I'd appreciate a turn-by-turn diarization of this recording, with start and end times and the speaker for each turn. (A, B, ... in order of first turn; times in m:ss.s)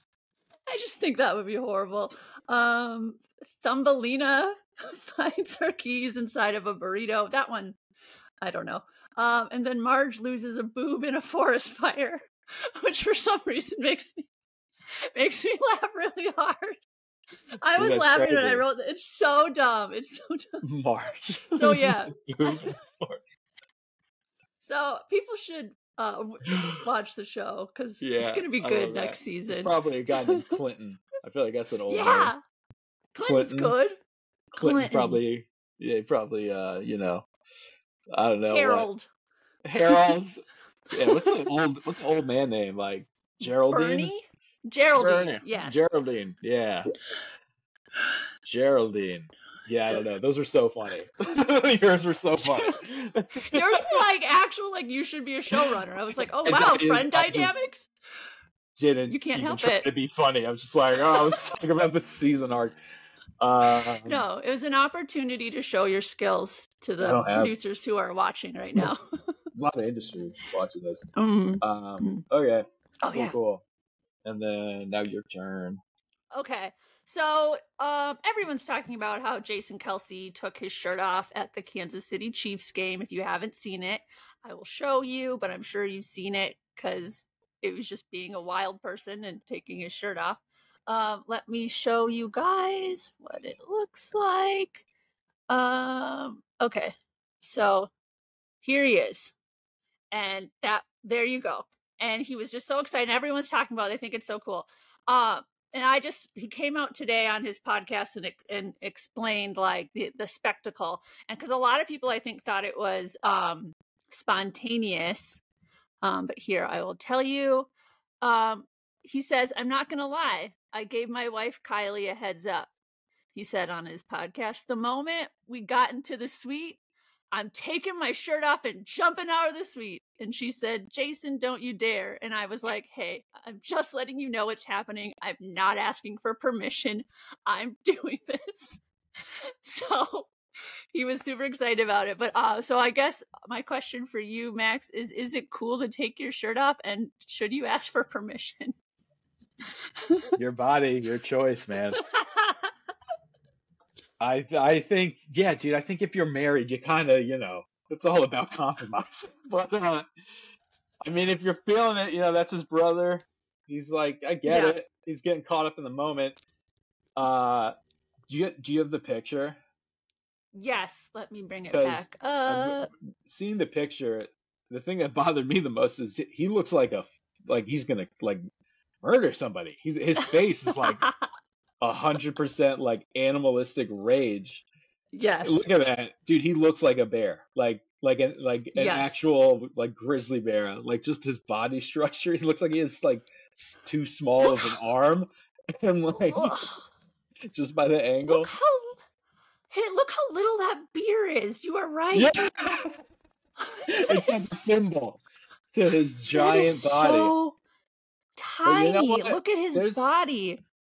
0:00.7-0:07.8 A
0:08.4-0:12.2 A
0:12.8-0:14.3 A
0:15.1-0:16.8 A
0:17.6-0:20.6 A
0:17.7-0:18.6 B
0:20.6-0:23.2 B
0:21.5-0:22.7 A
0:24.6-0:29.7 A
0:28.0-0:32.3 B
0:31.9-0:32.4 A
0:33.1-0:34.0 A
0:33.2-0:33.8 B
0:34.5-0:37.2 B
0:34.6-0:35.2 A
0:38.1-0:38.9 B
0:38.4-0:39.1 A
0:39.6-0:44.1 B
0:41.0-0:41.5 A
0:43.4-0:45.8 A
0:45.0-0:46.9 B
0:48.4-0:53.8 B
0:52.4-0:52.9 A
0:53.5-0:57.9 A
0:56.4-0:57.6 B
0:58.8-1:02.8 B
0:59.1-0:59.9 A
1:03.4-1:04.2 B
1:04.0-1:09.3 A
1:07.0-1:07.5 B
1:09.5-1:11.0 B
1:11.2-1:12.2 A
1:11.6-1:13.6 B
1:13.0-1:13.3 A
1:14.2-1:15.8 B
1:16.3-1:34.8 A
1:35.5-1:37.9 A
1:38.6-1:39.3 A
1:40.1-1:55.4 A
1:56.0-1:57.7 A
1:58.2-2:02.7 A
2:03.3-2:06.8 A
2:07.3-2:18.8 A
2:19.6-2:20.3 A
2:20.9-2:28.7 A
2:30.4-2:32.0 B
2:32.0-2:32.7 A
2:34.2-2:40.1 B
2:41.0-2:46.4 B
2:44.4-2:44.8 A
2:47.2-2:47.7 B
2:48.3-2:49.6 B
2:50.5-2:52.9 A
2:51.7-2:58.4 B
2:59.0-3:01.0 B
3:00.8-3:01.3 A
3:01.8-3:04.6 B
3:05.1-3:05.7 A
3:05.4-3:16.6 B
3:08.7-3:09.2 A
3:14.4-3:14.8 A
3:16.2-3:16.9 A
3:17.5-3:18.5 B
3:18.3-3:19.0 A
3:19.7-3:22.3 A
3:22.1-3:23.0 B
3:23.7-3:24.7 A
3:23.9-3:25.2 B
3:25.7-3:27.3 B
3:26.3-3:27.6 A
3:28.4-3:30.6 A
3:28.6-3:30.1 B